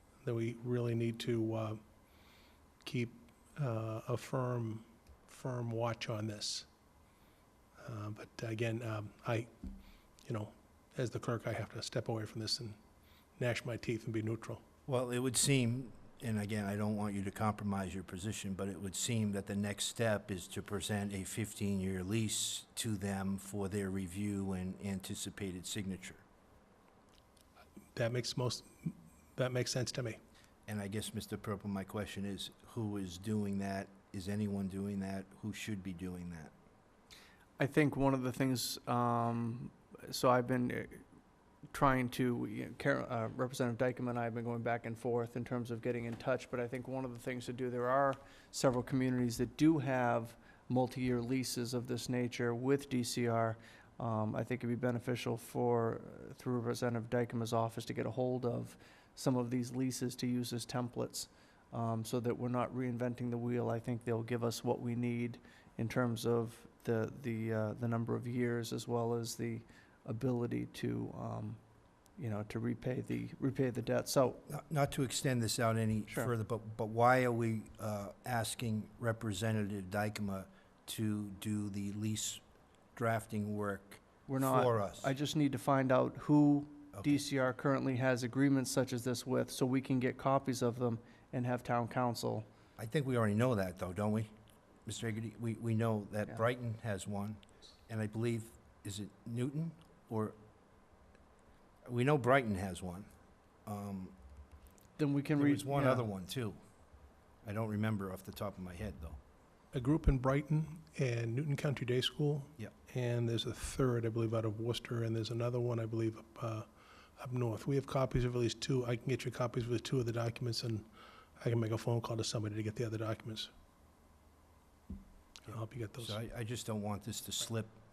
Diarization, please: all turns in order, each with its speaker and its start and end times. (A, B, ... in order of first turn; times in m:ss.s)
0:00.2-0:01.8 A
0:02.8-0:06.7 A
0:07.8-0:09.5 A
0:10.2-0:12.8 A
0:13.4-0:14.6 A
0:14.9-0:26.2 B
0:28.0-0:30.2 A
0:30.7-0:36.5 B
0:37.6-0:41.0 C
0:41.7-1:11.6 C
1:12.2-1:14.4 C
1:14.5-1:22.4 B
1:23.0-1:25.1 B
1:24.3-1:32.5 C
1:26.9-1:27.2 B
1:32.8-1:34.3 B
1:34.9-1:40.4 B
1:41.8-1:43.1 B
1:43.7-1:44.1 B
1:45.0-1:46.1 C
1:45.4-1:46.6 B
1:47.4-1:49.2 B
1:49.7-1:56.7 A
1:57.2-2:03.5 A
2:05.4-2:06.2 A
2:05.5-2:07.8 B